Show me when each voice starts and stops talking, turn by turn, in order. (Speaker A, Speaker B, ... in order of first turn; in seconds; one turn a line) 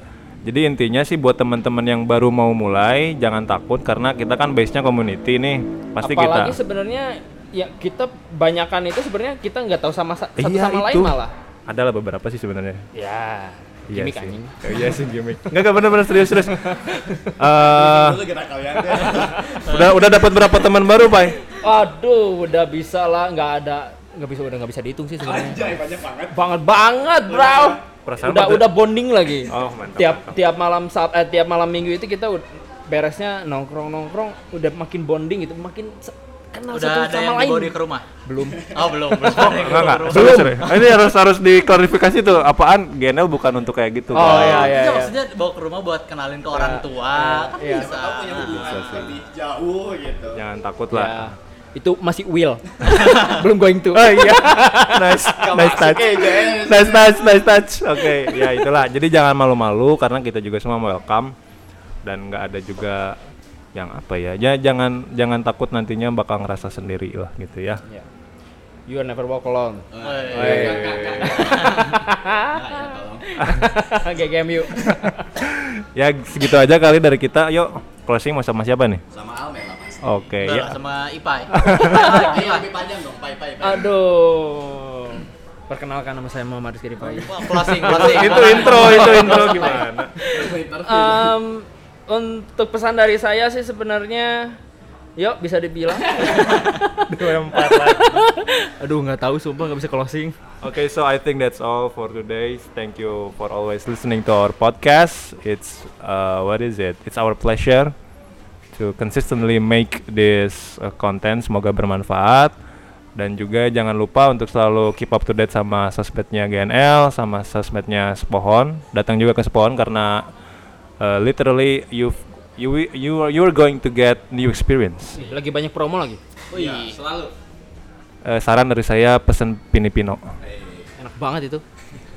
Speaker A: 0.4-6.6
Speaker B: 6.0-11.3
Speaker A: 10.4-12.8
Speaker B: 12.9-15.0
Speaker A: 13.9-18.2
Speaker B: 16.2-17.3
Speaker C: 17.4-19.8
Speaker B: 19.0-19.8
Speaker A: 19.6-21.4
Speaker B: 21.6-25.7
Speaker C: 25.2-26.5
Speaker B: 26.3-38.8
Speaker C: 27.3-27.8
Speaker A: 28.1-28.7
Speaker A: 29.5-30.4
Speaker D: 36.7-38.1
Speaker D: 38.7-40.9
Speaker A: 39.2-44.7
Speaker B: 39.5-40.7
Speaker B: 44.1-45.1
Speaker D: 44.1-48.6
Speaker B: 46.5-48.0
Speaker C: 47.5-50.4
Speaker A: 48.5-49.2
Speaker A: 50.4-51.4
Speaker B: 50.9-55.2
Speaker D: 53.0-53.3
Speaker A: 54.0-61.3
Speaker C: 55.3-57.3
Speaker B: 58.1-58.5
Speaker A: 62.0-63.2
Speaker A: 63.7-67.8
Speaker B: 68.9-75.2
Speaker C: 69.9-73.5
Speaker D: 70.0-72.0
Speaker A: 70.3-71.5
Speaker A: 75.3-79.0
Speaker C: 79.1-80.3
Speaker A: 80.0-80.8
Speaker D: 80.5-82.6
Speaker A: 81.5-82.1
Speaker B: 81.6-82.4
Speaker C: 81.7-83.9
Speaker B: 83.6-94.6
Speaker D: 87.1-89.7
Speaker A: 87.8-90.1
Speaker C: 89.1-89.6
Speaker C: 90.2-91.4
Speaker B: 95.2-100.4
Speaker A: 97.1-98.2
Speaker A: 100.6-107.9
Speaker A: 108.7-112.5
Speaker A: 113.2-120.2
Speaker A: 121.0-125.2
Speaker B: 125.1-126.2
Speaker D: 126.5-127.0
Speaker C: 126.5-127.3
Speaker A: 128.2-130.2
Speaker C: 130.4-130.9
Speaker B: 131.0-131.6